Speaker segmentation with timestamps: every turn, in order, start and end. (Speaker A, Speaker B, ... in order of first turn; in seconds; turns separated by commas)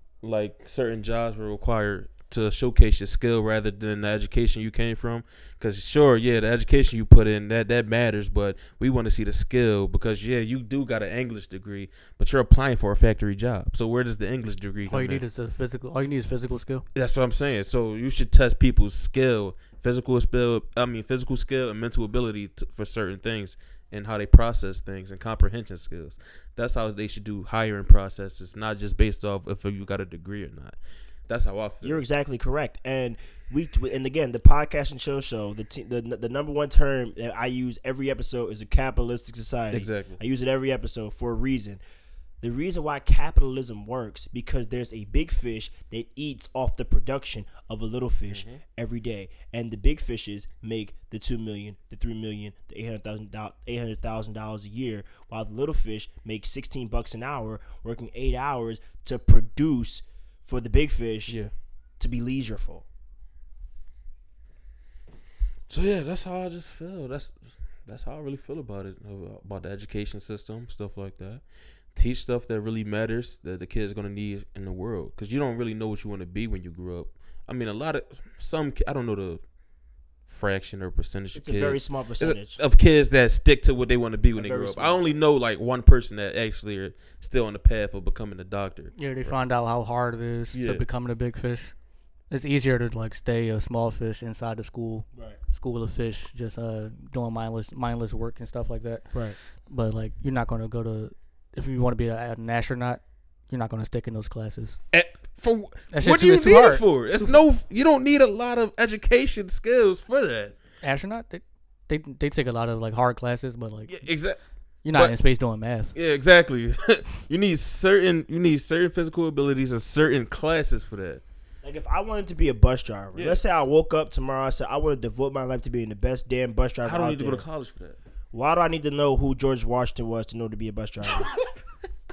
Speaker A: 0.2-15.2, Speaker B: 14.9-16.9, Speaker A: 16.9-30.8, Speaker A: 31.3-32.0, Speaker C: 31.8-41.8, Speaker A: 39.7-40.2, Speaker C: 42.4-61.4, Speaker A: 48.3-48.6, Speaker C: 62.0-62.9, Speaker A: 65.7-71.4, Speaker A: 72.0-79.4, Speaker A: 80.3-89.4, Speaker C: 81.3-82.6, Speaker C: 84.4-85.0, Speaker B: 89.0-91.7, Speaker A: 90.5-90.8, Speaker B: 92.3-99.1, Speaker C: 95.1-95.4, Speaker B: 99.7-104.8, Speaker A: 104.9-110.6, Speaker B: 105.9-107.4, Speaker B: 110.8-114.0, Speaker A: 113.9-114.4, Speaker B: 114.8-115.9, Speaker A: 115.9-121.2, Speaker C: 121.6-127.5, Speaker A: 123.2-123.4, Speaker A: 126.8-128.0, Speaker C: 128.3-131.3, Speaker A: 131.2-131.5